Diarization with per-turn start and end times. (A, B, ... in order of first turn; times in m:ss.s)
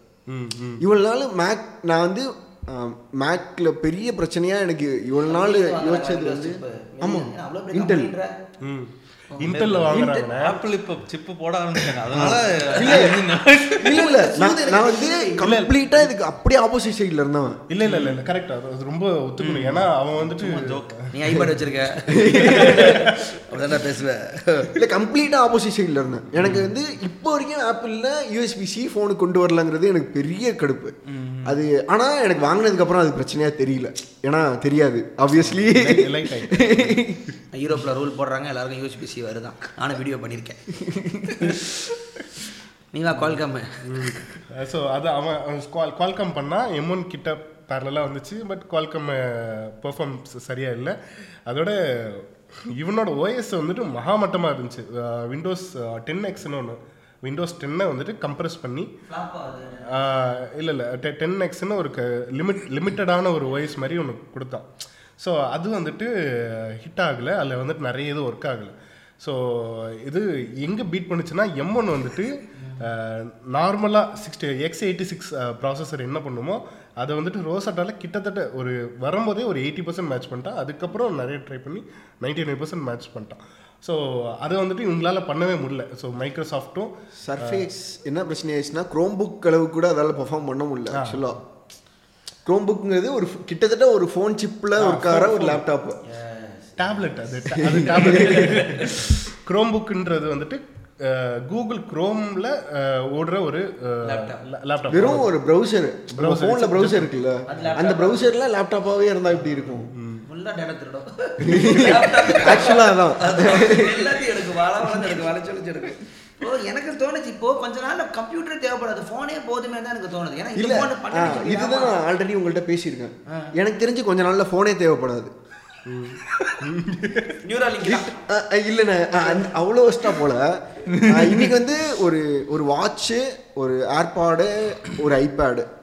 0:00.3-0:00.8 A
0:00.8-0:08.1 B
0:05.2-0:08.3 C
0:08.6-0:10.6 A
0:09.3-0:10.3 C
0:09.4-0:14.0 D
0:12.1-0:13.2 B
0:12.8-0:13.1 C
0:13.8-0:17.6 B
0:13.8-0:15.5 C
0:15.4-0:16.0 A
0:17.7-0:21.4 A
0:17.8-0:18.2 D
0:19.4-0:20.9 D
0:21.1-0:24.7 C
0:22.1-0:23.1 B
0:22.3-0:23.4 A
0:24.7-0:37.2 B
0:31.1-0:31.6 D
0:35.3-0:37.2 A
0:37.5-0:40.6 C
0:40.7-0:41.7 B
0:42.9-0:44.2 C
0:43.8-0:58.9 A
0:59.1-1:00.0 C
0:59.9-1:27.7 A
1:12.6-1:12.8 C
1:27.2-1:31.4 B
1:30.9-1:31.3 A
1:32.4-1:36.0 B
1:34.7-1:35.6 A
1:36.0-1:36.9 C
1:36.8-1:45.3 A
1:37.5-1:39.1 B
1:38.0-1:39.0 C
1:44.0-1:44.4 C
1:44.9-1:49.9 B
1:46.1-1:47.8 A
1:47.5-1:48.3 C
1:49.6-1:50.2 A
1:50.2-2:02.0 C
1:51.4-1:55.2 B
2:00.6-2:05.3 B
2:05.8-2:07.4 A
2:07.4-2:08.2 C
2:07.8-2:15.7 B
2:10.9-2:11.5 D